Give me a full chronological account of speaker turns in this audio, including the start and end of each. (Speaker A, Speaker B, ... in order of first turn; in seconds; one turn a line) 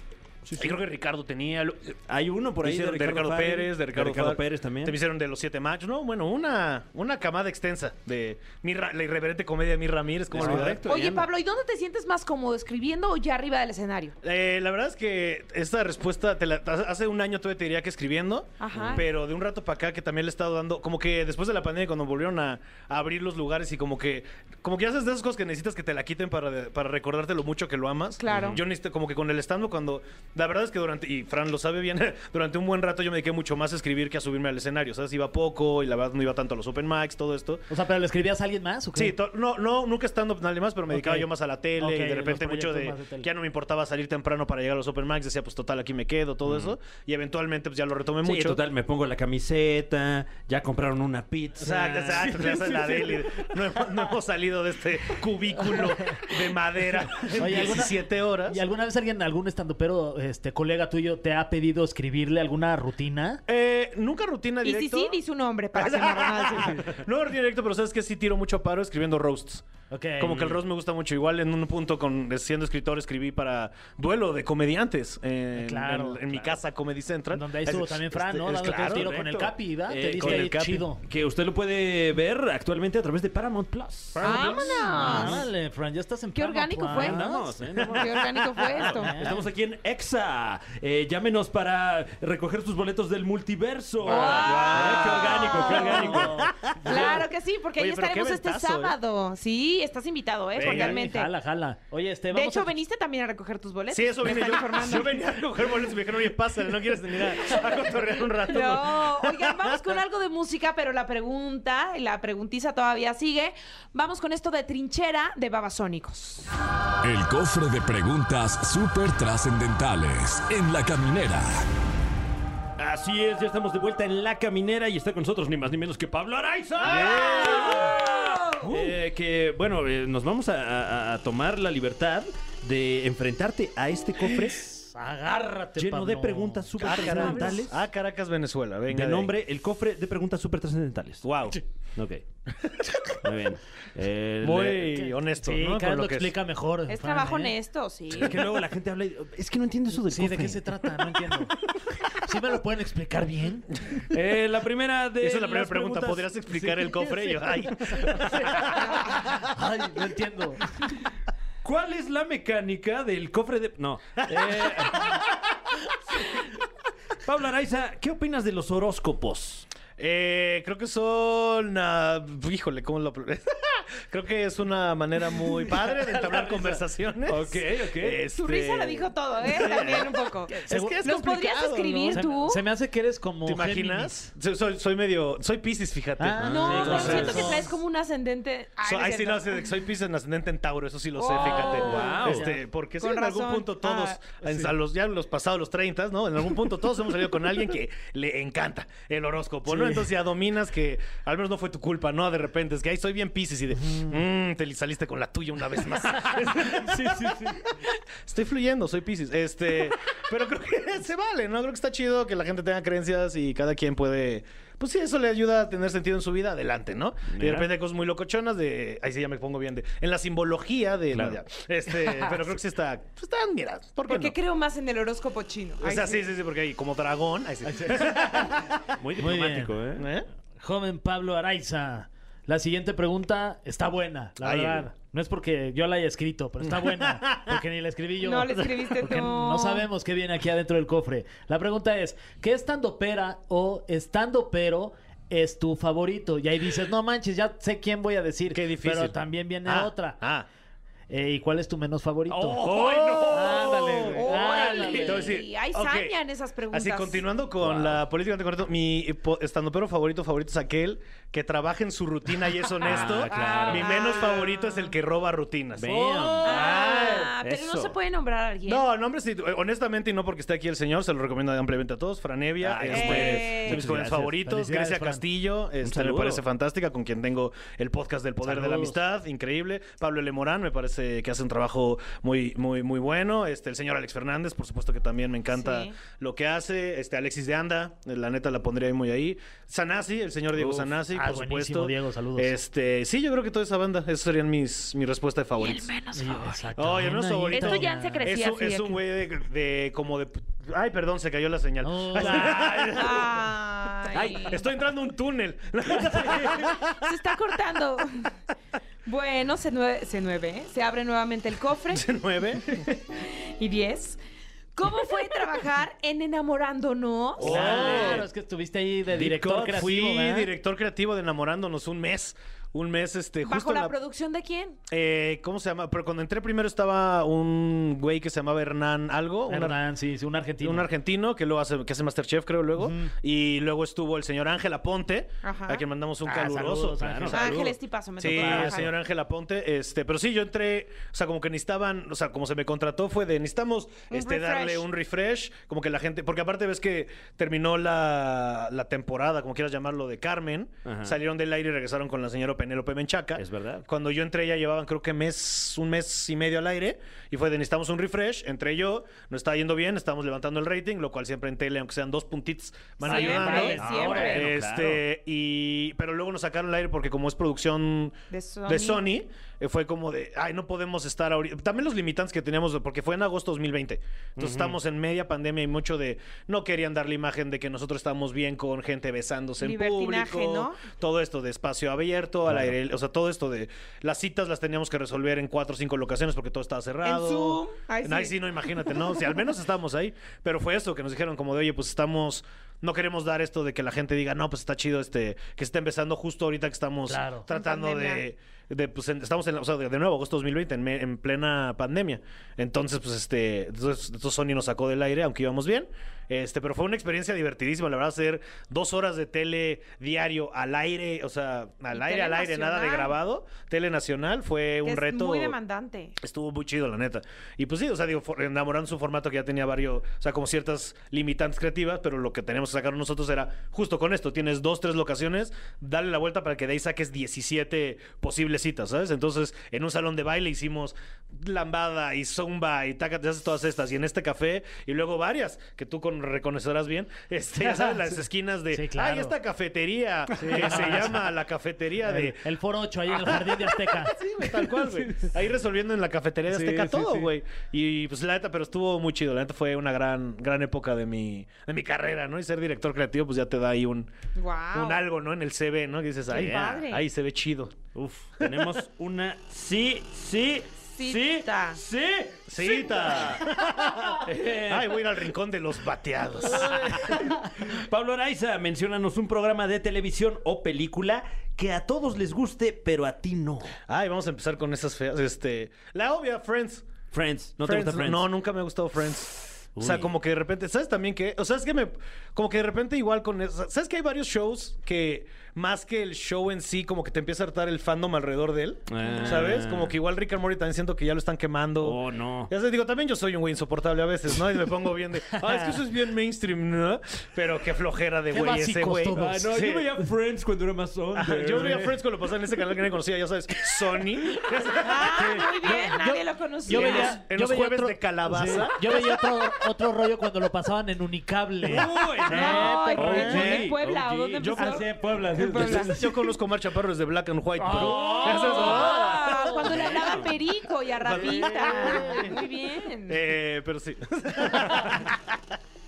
Speaker A: 0.5-0.8
Speaker B: 0.6-2.0
Speaker A: 2.1-5.0
Speaker B: 2.6-10.9
Speaker A: 10.3-11.3
Speaker C: 10.6-14.2
Speaker B: 14.2-37.7
Speaker C: 18.6-19.1
Speaker A: 18.7-19.0
Speaker C: 28.2-28.6
Speaker A: 28.3-28.6
Speaker D: 37.7-39.1
Speaker B: 39.0-48.6
Speaker D: 40.9-43.3
Speaker A: 46.5-46.8
Speaker A: 48.2-52.6
Speaker B: 51.6-58.6
Speaker D: 51.6-53.4
Speaker D: 57.4-63.4
Speaker B: 63.5-65.2
Speaker C: 64.6-66.9
Speaker B: 65.8-69.7
Speaker D: 69.9-70.6
Speaker B: 70.2-79.2
Speaker D: 75.5-76.2
Speaker A: 76.3-76.6
Speaker D: 77.3-81.0
Speaker A: 78.7-84.3
Speaker B: 80.1-80.9
Speaker D: 84.2-87.4
Speaker C: 84.2-85.4
Speaker A: 85.0-85.4
Speaker C: 86.3-89.1
Speaker A: 86.9-88.3
Speaker D: 88.8-89.4
Speaker A: 88.8-97.2
Speaker C: 94.1-96.3
Speaker B: 94.1-99.0
Speaker D: 95.7-96.7
Speaker C: 96.8-101.3
Speaker B: 100.6-101.0
Speaker D: 100.6-102.8
Speaker C: 102.3-105.2
Speaker B: 103.9-109.8
Speaker C: 107.4-116.5
Speaker E: 117.0-121.7
Speaker A: 122.8-134.7
Speaker C: 126.8-128.7
Speaker B: 126.8-128.0
Speaker D: 134.5-137.4
Speaker A: 135.8-137.8
Speaker B: 136.8-139.3
Speaker C: 136.9-137.6
Speaker A: 138.9-141.2
Speaker B: 141.2-141.6
Speaker A: 142.0-142.2
Speaker B: 142.6-143.2
Speaker A: 143.2-145.0
Speaker B: 144.4-146.3
Speaker D: 145.0-147.5
Speaker C: 146.9-148.4
Speaker A: 148.1-150.9
Speaker D: 149.9-151.6
Speaker D: 152.2-153.8
Speaker A: 154.1-157.1
Speaker B: 155.2-158.8
Speaker D: 158.1-160.6
Speaker A: 161.6-165.2
Speaker B: 164.2-165.2
Speaker A: 167.2-169.7
Speaker B: 170.0-182.3
Speaker D: 175.7-176.8
Speaker A: 177.3-178.2
Speaker C: 178.3-182.6
Speaker D: 180.6-181.0
Speaker D: 182.1-184.3
Speaker B: 183.5-187.6
Speaker D: 186.2-187.7
Speaker A: 186.4-187.6
Speaker C: 186.4-189.7
Speaker B: 188.8-224.3
Speaker C: 191.2-192.2
Speaker A: 191.7-192.5
Speaker D: 192.0-192.6
Speaker C: 193.0-194.2
Speaker D: 194.4-194.7
Speaker D: 199.7-200.1
Speaker D: 206.7-207.6
Speaker A: 217.3-217.7
Speaker A: 221.1-221.4
Speaker C: 224.1-226.3
Speaker B: 225.8-228.8
Speaker D: 227.6-229.8
Speaker A: 229.0-230.1
Speaker B: 230.0-230.3
Speaker D: 230.6-250.2
Speaker B: 234.4-234.9
Speaker B: 237.1-237.5
Speaker C: 238.2-239.9
Speaker B: 248.5-250.5
Speaker D: 251.1-252.7
Speaker A: 252.4-254.1
Speaker B: 252.4-256.2
Speaker D: 253.3-255.3
Speaker C: 254.1-257.2
Speaker B: 256.7-267.3
Speaker A: 257.6-258.0
Speaker A: 262.8-264.0
Speaker C: 263.1-264.9
Speaker A: 265.8-267.9
Speaker D: 266.0-266.7
Speaker C: 266.4-268.9
Speaker B: 268.7-295.9
Speaker A: 272.6-274.3
Speaker C: 272.9-273.8
Speaker D: 273.1-275.2
Speaker A: 275.8-276.4
Speaker D: 278.4-279.0
Speaker C: 285.5-286.0
Speaker A: 290.6-290.9
Speaker D: 291.1-292.6
Speaker C: 295.6-296.7
Speaker D: 296.1-298.2
Speaker B: 296.8-303.4
Speaker C: 297.5-299.0
Speaker D: 301.8-302.9
Speaker C: 302.9-304.6
Speaker B: 304.2-307.2
Speaker C: 306.6-308.3
Speaker C: 309.1-312.0
Speaker B: 311.9-312.9
Speaker C: 313.2-314.2
Speaker C: 314.8-317.6
Speaker A: 317.4-318.3
Speaker B: 317.4-318.3
Speaker D: 317.4-320.5
Speaker A: 319.1-319.8
Speaker B: 319.7-323.9
Speaker C: 323.4-324.8
Speaker B: 324.9-329.8
Speaker D: 329.5-330.9
Speaker B: 330.6-368.1
Speaker D: 332.8-333.1
Speaker C: 335.4-335.8
Speaker D: 336.2-337.6
Speaker A: 337.0-337.5
Speaker C: 337.3-338.9
Speaker A: 338.3-338.8
Speaker D: 338.4-338.9
Speaker C: 344.1-344.9
Speaker A: 350.9-351.2
Speaker A: 353.4-353.9
Speaker D: 363.0-364.5
Speaker C: 363.0-364.5
Speaker A: 363.8-365.0
Speaker C: 368.3-369.0
Speaker B: 368.7-415.6
Speaker A: 374.4-374.8
Speaker C: 379.6-380.8
Speaker A: 382.5-382.7
Speaker C: 387.0-389.2
Speaker D: 397.1-397.5
Speaker C: 397.5-398.2
Speaker C: 411.9-413.2
Speaker C: 414.8-416.2
Speaker B: 416.2-442.4
Speaker D: 437.6-439.4
Speaker D: 440.4-441.3
Speaker D: 442.0-445.3
Speaker B: 443.1-454.1
Speaker D: 446.5-447.3
Speaker C: 454.4-455.0
Speaker B: 454.7-457.8
Speaker C: 456.3-457.1
Speaker A: 456.3-456.8
Speaker A: 457.9-463.6
Speaker C: 460.8-461.8
Speaker B: 462.5-467.1
Speaker A: 464.2-465.1
Speaker A: 466.5-473.8
Speaker B: 473.9-476.9
Speaker A: 477.1-478.3
Speaker B: 477.6-499.9
Speaker A: 479.8-480.1
Speaker A: 488.9-490.0
Speaker A: 491.8-492.5
Speaker D: 495.3-495.8
Speaker D: 498.3-499.5
Speaker A: 499.1-502.0
Speaker B: 501.2-505.9
Speaker D: 501.5-501.9
Speaker C: 504.8-507.2
Speaker D: 505.2-513.7
Speaker B: 506.7-509.2
Speaker A: 511.7-514.9
Speaker C: 512.3-514.9
Speaker B: 513.1-513.6
Speaker D: 514.5-516.2
Speaker C: 515.4-515.9
Speaker A: 515.5-515.9
Speaker B: 515.6-519.1
Speaker D: 517.6-519.7
Speaker A: 517.7-520.3
Speaker C: 518.0-523.2
Speaker A: 521.1-522.2
Speaker B: 521.1-521.5
Speaker D: 521.9-522.3
Speaker B: 523.1-525.2
Speaker D: 524.5-525.0